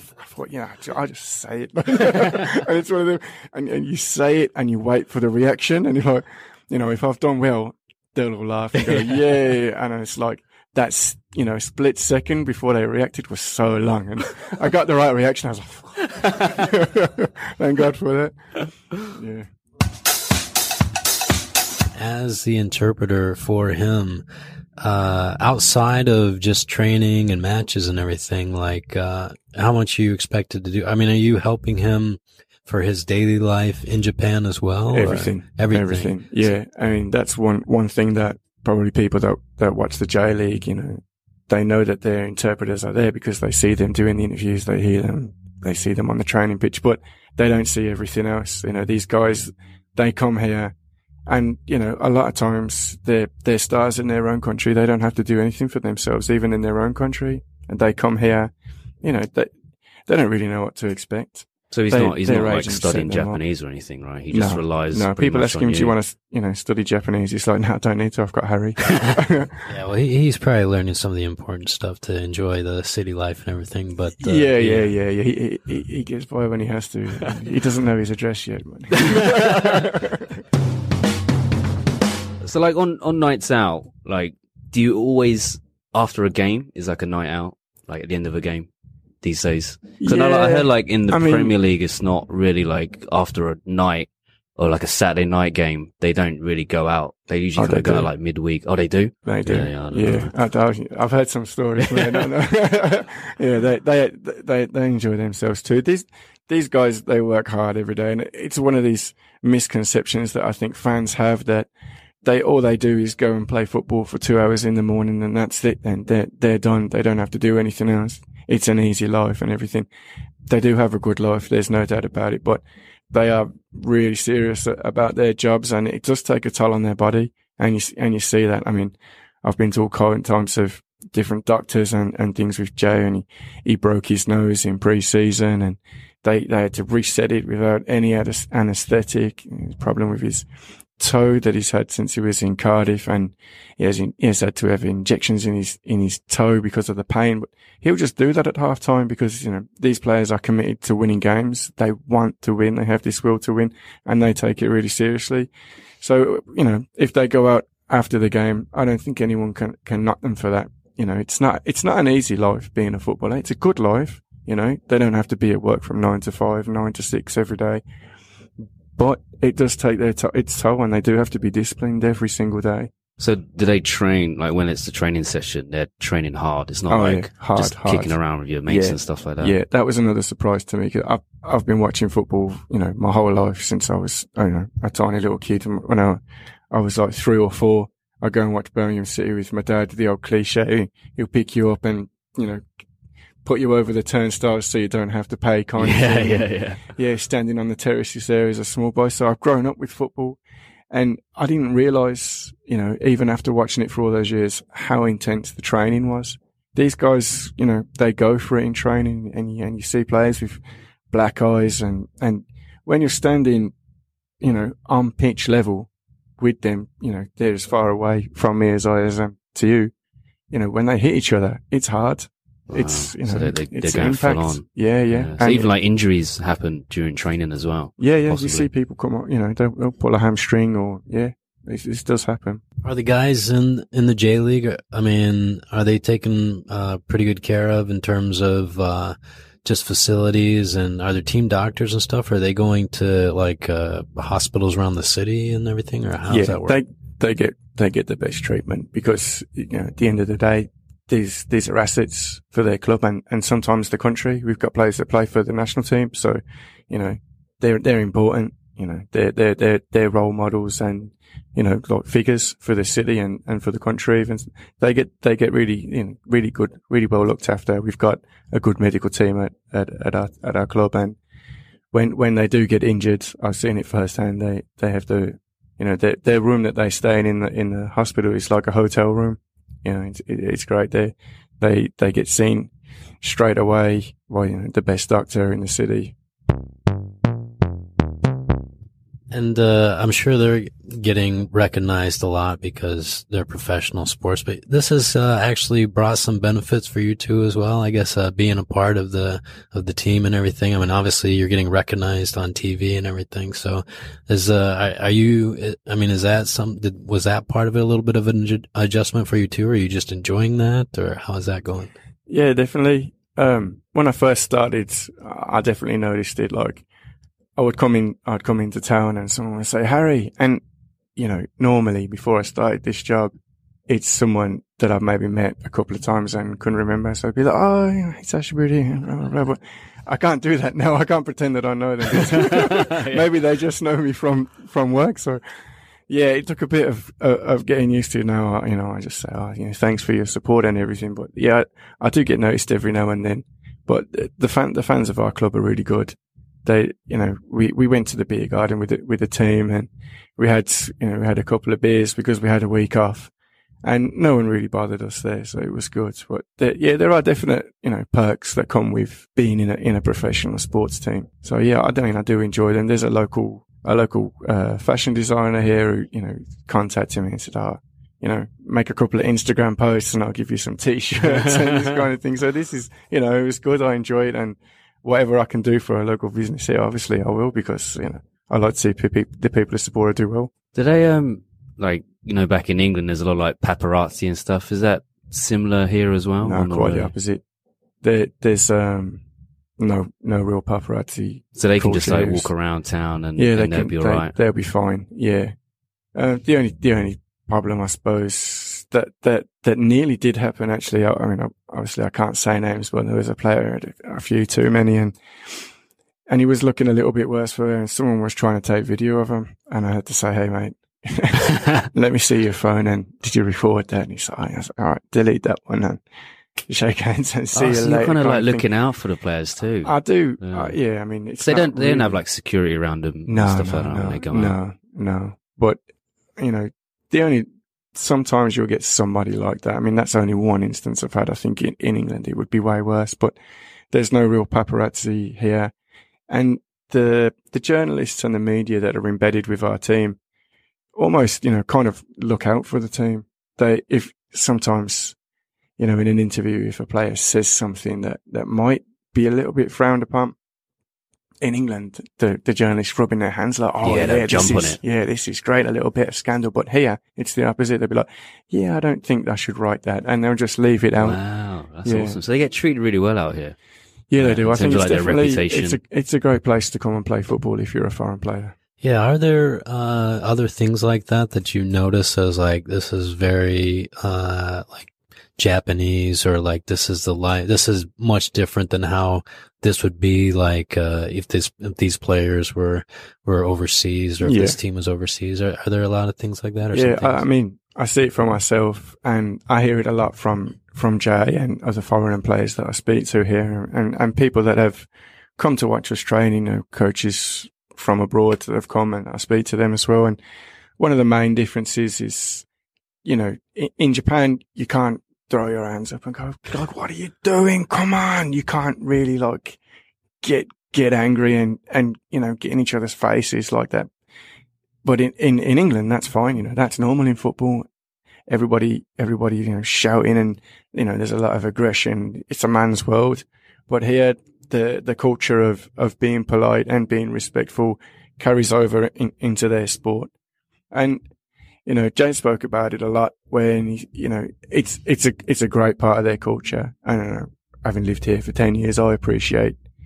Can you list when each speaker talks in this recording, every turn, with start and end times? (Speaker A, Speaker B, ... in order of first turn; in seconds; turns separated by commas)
Speaker A: 0.2-18.3, Speaker A: 18.9-19.4, Speaker B: 21.9-24.2, Speaker B: 24.8-36.1, Speaker A: 34.9-50.7, Speaker A: 51.3-58.5, Speaker A: 59.0-59.5, Speaker A: 60.1-63.4, Speaker C: 61.7-65.9, Speaker A: 64.3-69.7, Speaker B: 69.7-74.9, Speaker A: 74.2-80.4, Speaker C: 79.0-79.9, Speaker C: 82.4-88.7, Speaker C: 89.2-100.3, Speaker A: 90.0-91.5, Speaker A: 97.6-98.1, Speaker A: 99.2-111.7, Speaker C: 101.8-102.3, Speaker A: 112.2-119.9, Speaker A: 120.5-140.4, Speaker A: 141.0-155.5, Speaker A: 156.0-167.8, Speaker A: 168.9-172.9, Speaker C: 173.2-179.6, Speaker A: 176.9-178.1, Speaker A: 178.7-192.6, Speaker A: 193.4-200.4, Speaker C: 195.8-196.8, Speaker A: 200.9-213.7, Speaker A: 214.4-219.9, Speaker A: 220.5-225.7, Speaker C: 222.7-228.7, Speaker A: 228.0-232.6, Speaker B: 232.8-246.8, Speaker A: 246.3-271.1, Speaker A: 271.9-282.7, Speaker A: 283.2-286.1, Speaker B: 289.3-311.9, Speaker A: 312.3-316.8, Speaker A: 317.6-320.6, Speaker A: 321.2-323.3, Speaker A: 323.9-335.4, Speaker C: 332.1-333.2, Speaker A: 336.1-353.3, Speaker A: 353.8-380.5, Speaker C: 371.2-371.9, Speaker C: 380.7-387.1, Speaker A: 386.4-387.4, Speaker A: 388.0-389.2, Speaker A: 389.8-392.5, Speaker C: 391.6-394.3, Speaker A: 393.4-395.5, Speaker A: 396.1-405.1, Speaker A: 406.3-416.0, Speaker A: 416.7-418.7, Speaker C: 417.5-420.7, Speaker A: 419.8-422.2, Speaker C: 421.4-424.6, Speaker A: 423.2-425.8, Speaker A: 426.4-433.3, Speaker A: 433.9-435.7, Speaker A: 436.3-440.2, Speaker A: 440.9-445.1, Speaker A: 445.8-450.3, Speaker A: 451.4-461.2, Speaker C: 453.8-454.8, Speaker C: 461.0-463.6, Speaker A: 461.8-462.2, Speaker A: 464.1-468.5, Speaker C: 464.2-465.8, Speaker B: 468.8-487.2, Speaker A: 484.2-484.6, Speaker A: 486.7-494.9, Speaker A: 495.4-500.2, Speaker A: 500.8-502.4, Speaker A: 503.0-509.6, Speaker A: 510.2-513.9, Speaker A: 514.8-517.6, Speaker A: 518.3-530.1, Speaker A: 530.7-531.0, Speaker A: 531.6-539.5